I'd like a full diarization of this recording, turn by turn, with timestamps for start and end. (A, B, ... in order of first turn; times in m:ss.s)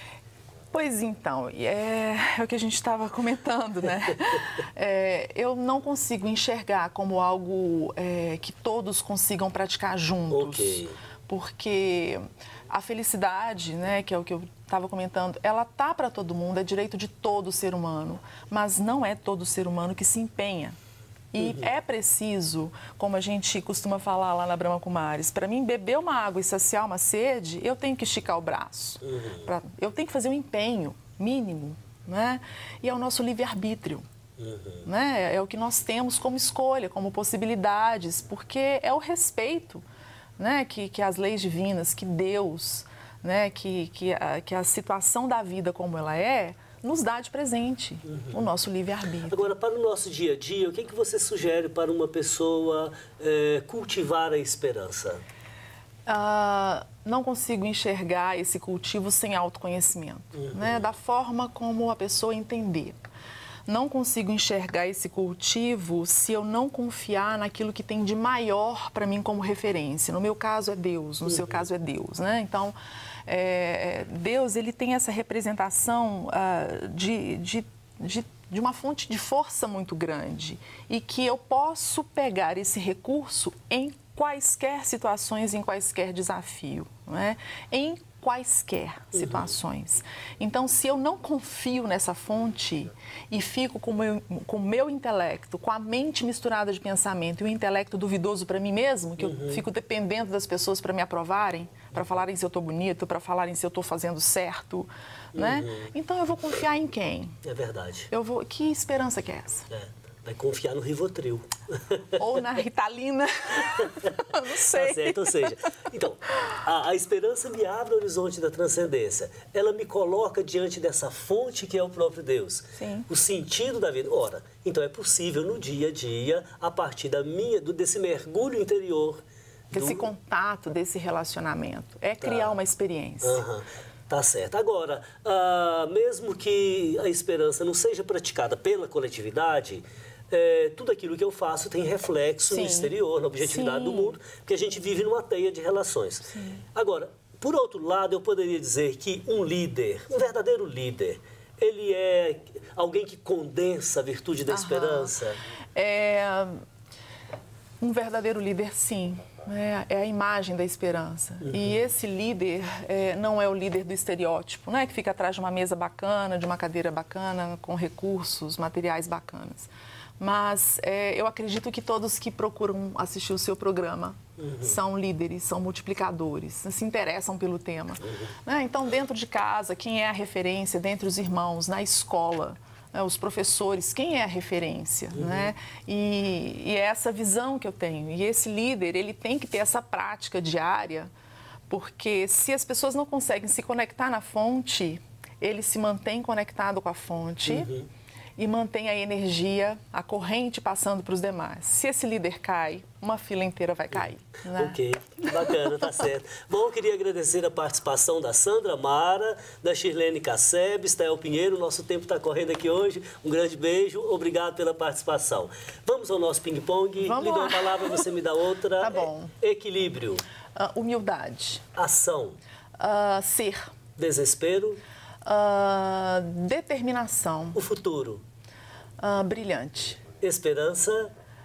0:00.7-0:20.8 A
0:10.3-0:11.0 B
0:21.3-0:34.0 A
0:21.4-0:21.7 B
0:29.0-0:29.4 B
0:34.4-0:34.8 B
0:34.8-0:39.8 A
0:40.4-0:49.5 A
0:48.1-0:48.4 B
0:49.3-0:55.2 B
0:56.1-1:03.0 A
1:00.4-1:00.9 B
1:03.7-1:12.8 A
1:11.3-1:11.6 B
1:13.3-1:47.4 A
1:29.1-1:29.5 B
1:39.2-1:39.6 B
1:45.4-1:45.9 B
1:47.4-1:48.1 B
1:48.1-1:49.7 A
1:49.7-1:52.2 B
1:52.2-1:55.5 A
1:54.7-2:09.2 B
2:02.8-2:03.1 A
2:09.7-2:13.4 A
2:09.7-2:10.1 B
2:12.2-2:12.5 B
2:13.2-2:35.4 B
2:22.5-2:24.2 A
2:26.3-2:26.6 A
2:34.5-2:35.1 A
2:35.8-2:36.6 A
2:37.8-3:11.1 A
2:41.4-2:41.8 B
2:54.4-2:54.8 B
3:05.1-3:05.5 B
3:11.7-3:17.7 A
3:17.5-3:17.9 B
3:18.4-3:26.0 A
3:24.5-3:40.2 B
3:37.0-3:38.1 A
3:38.8-3:39.3 A
3:40.6-3:41.7 A
3:41.8-3:42.4 B
3:42.8-3:43.7 A
3:44.0-3:44.8 B
3:45.2-3:47.6 A
3:47.6-3:48.2 B
3:49.0-3:50.0 A
3:50.2-3:51.1 B